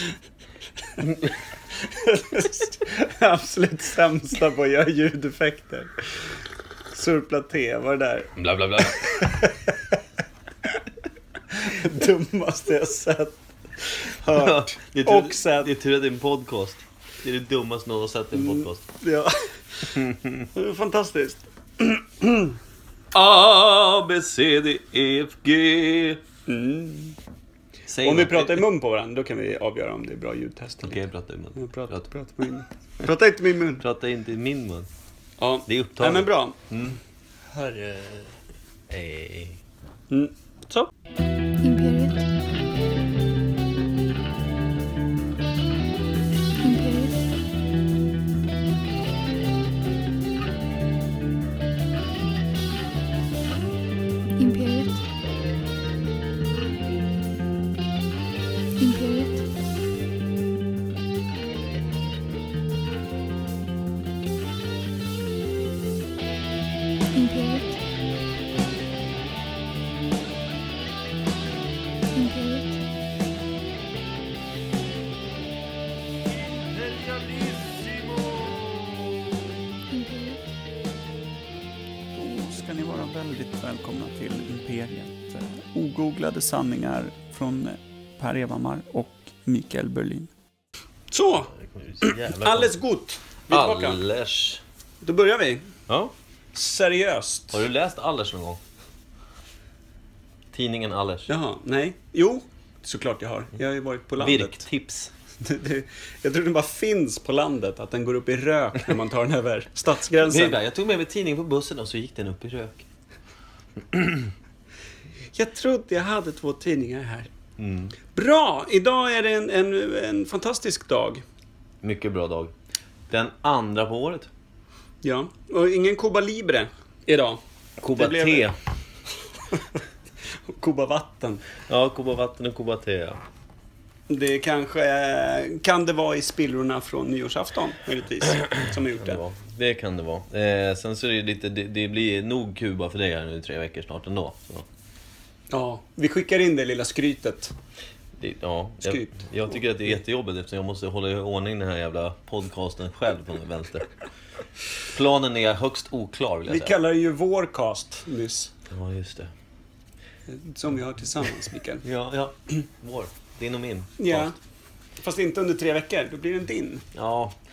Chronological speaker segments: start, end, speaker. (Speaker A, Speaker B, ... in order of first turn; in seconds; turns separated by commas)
Speaker A: 1.8-6.0, Speaker A: 6.9-9.9, Speaker B: 8.3-9.3, Speaker A: 11.5-15.7, Speaker B: 14.3-18.8, Speaker A: 18.3-20.0, Speaker B: 19.9-20.5, Speaker A: 20.5-22.6, Speaker B: 23.1-26.2, Speaker A: 26.5-27.2, Speaker B: 27.9-28.6, Speaker A: 28.0-31.0, Speaker B: 30.8-32.0, Speaker A: 31.5-33.8, Speaker B: 33.8-34.9, Speaker A: 35.4-36.6, Speaker B: 35.7-37.0, Speaker A: 37.5-38.2, Speaker B: 38.9-39.6, Speaker A: 40.1-40.9, Speaker C: 41.6-42.2, Speaker C: 46.6-47.2, Speaker C: 54.4-55.0, Speaker C: 58.8-59.5, Speaker C: 67.1-67.8, Speaker C: 72.1-72.8, Speaker A: 77.0-78.3, Speaker C: 79.9-80.4, Speaker A: 82.2-90.3, Speaker A: 91.1-94.0, Speaker B: 91.5-92.7, Speaker B: 93.5-94.6, Speaker A: 95.0-95.7, Speaker B: 95.9-96.1, Speaker A: 96.5-97.6, Speaker B: 97.5-98.6, Speaker B: 100.5-101.3, Speaker A: 101.3-104.6, Speaker B: 104.2-105.1, Speaker A: 105.4-110.6, Speaker B: 110.2-112.8, Speaker B: 113.9-114.2, Speaker A: 115.3-117.3, Speaker B: 117.6-117.9, Speaker A: 118.1-121.2, Speaker B: 121.8-122.5, Speaker B: 123.1-124.3, Speaker A: 125.0-128.5, Speaker B: 127.8-128.6, Speaker A: 130.5-131.4, Speaker B: 131.7-133.2, Speaker A: 134.1-139.2, Speaker B: 138.4-144.7, Speaker A: 145.5-147.5, Speaker B: 148.2-153.9, Speaker A: 148.8-149.2, Speaker B: 154.9-156.7, Speaker A: 156.5-158.5, Speaker B: 158.7-159.3, Speaker A: 160.3-161.8, Speaker B: 161.8-164.3, Speaker A: 164.0-164.3, Speaker A: 165.0-166.8, Speaker B: 166.9-167.3